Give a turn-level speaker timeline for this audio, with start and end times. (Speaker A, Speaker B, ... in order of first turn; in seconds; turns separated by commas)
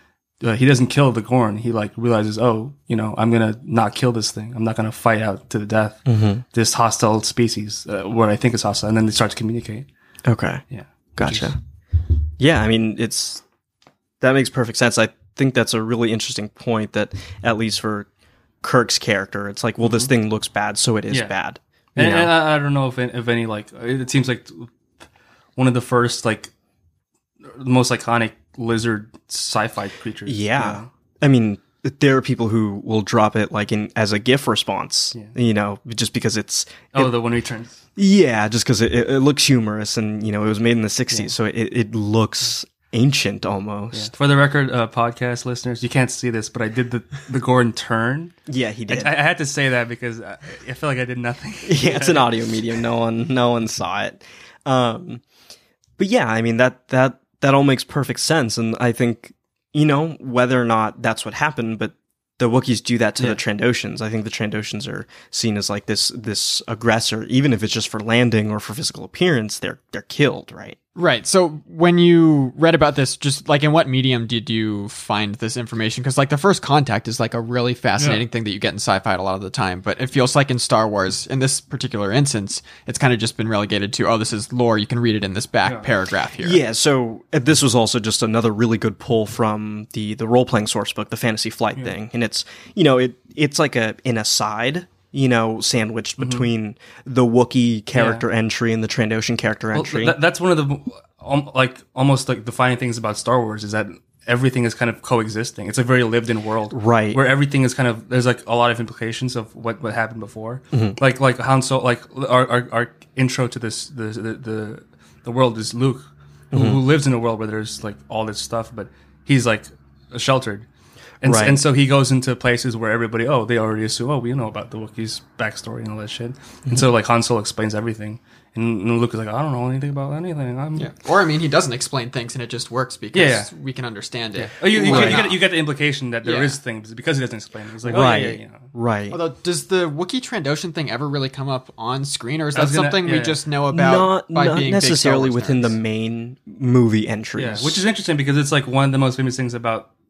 Speaker A: 0.4-9.9, Speaker B: 6.1-6.4, Speaker B: 10.3-10.6, Speaker A: 10.7-11.5, Speaker B: 11.2-11.6, Speaker B: 12.4-13.4, Speaker B: 14.2-18.1, Speaker B: 18.6-22.3, Speaker A: 21.1-21.4, Speaker A: 22.0-24.7, Speaker A: 25.6-26.5, Speaker A: 27.5-30.9, Speaker B: 30.3-37.1, Speaker A: 36.9-37.8, Speaker B: 38.0-44.1, Speaker A: 43.9-48.4, Speaker B: 48.5-49.1, Speaker A: 48.9-52.3, Speaker B: 51.7-55.2, Speaker B: 56.0-70.8, Speaker C: 71.0-86.6, Speaker B: 86.4-100.2, Speaker A: 96.2-96.5, Speaker A: 97.9-98.2, Speaker A: 99.7-120.7, Speaker B: 106.7-107.2, Speaker B: 110.7-111.0, Speaker B: 116.5-116.8, Speaker A: 121.2-130.9, Speaker B: 121.2-121.6, Speaker C: 130.8-135.4, Speaker A: 133.1-133.5, Speaker A: 134.4-138.7, Speaker B: 134.8-135.2, Speaker C: 136.2-136.6, Speaker B: 137.9-139.2, Speaker C: 139.1-145.8, Speaker A: 142.5-143.4, Speaker B: 143.7-147.8, Speaker A: 147.4-149.9